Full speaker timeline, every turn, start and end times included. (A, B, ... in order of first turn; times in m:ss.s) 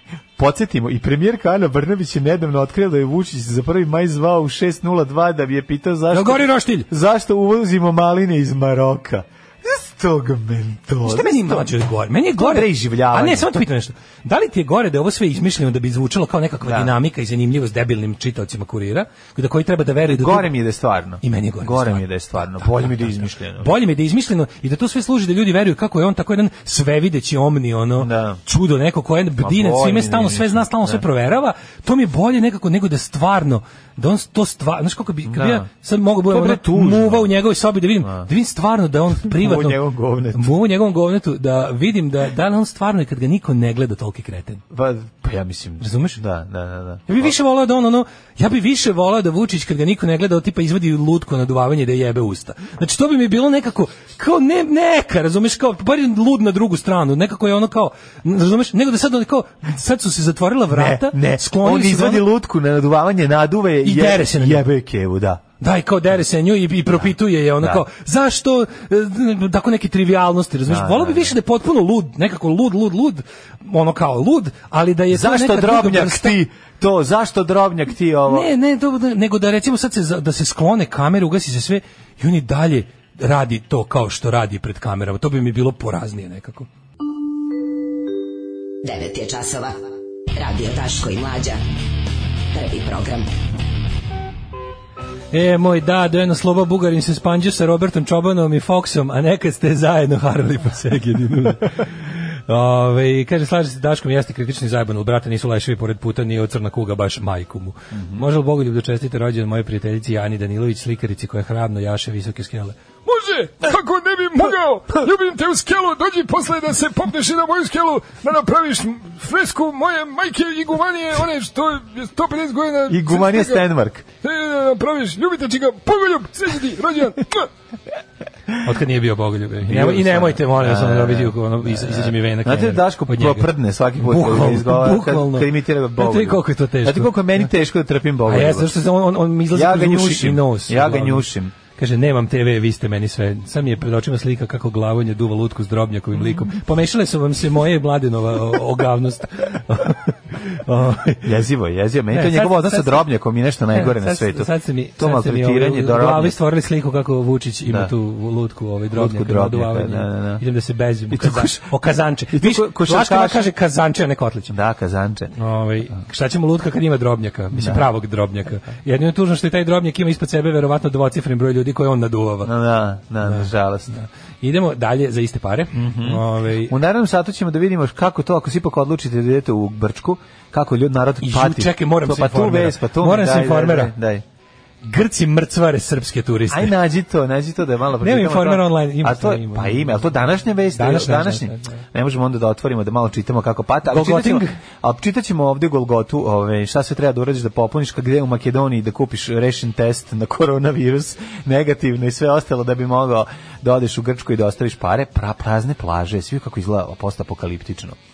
0:00.4-0:11.7 A
0:06.1-0:06.9 B
0:11.0-0:20.5 B
0:12.4-0:13.5 A
0:16.6-0:16.9 A
0:20.1-0:23.7 A
0:21.2-0:39.8 B
0:28.0-0:28.4 A
0:29.4-0:31.0 A
0:35.3-0:35.7 A
0:36.3-0:37.3 A
0:39.3-0:40.5 A
0:40.3-0:44.6 B
0:44.7-0:47.3 A
0:45.8-0:46.2 B
0:47.1-1:02.3 B
1:00.7-1:05.4 A
1:03.8-1:04.6 B
1:05.6-1:16.4 B
1:06.9-1:07.8 A
1:10.7-1:11.4 A
1:15.1-1:18.5 A
1:18.3-1:26.7 B
1:28.8-1:29.8 C
1:30.4-1:31.6 C
1:32.5-1:33.3 C
1:35.3-1:52.8 B
1:48.0-1:48.2 A
1:53.0-2:03.6 D
2:02.9-2:04.1 A
2:04.2-2:07.5 D
2:08.6-2:17.5 B
2:09.7-2:18.7 A
2:18.3-2:31.3 B
2:19.5-2:21.6 A
2:31.2-2:36.4 A
2:32.1-2:33.0 B
2:33.7-2:44.5 B
2:37.7-2:37.9 A
2:38.9-2:40.4 A
2:41.1-2:41.7 A
2:42.3-2:43.5 A
2:44.5-2:45.3 A
2:45.4-2:52.5 B
2:47.5-2:47.9 A
2:52.4-2:54.0 A
2:53.2-2:56.7 B
2:55.7-3:04.2 A
3:01.2-3:03.9 B
3:04.8-3:06.8 B
3:06.5-3:28.0 A
3:08.0-3:10.0 B
3:10.8-3:11.8 B
3:13.9-3:14.6 B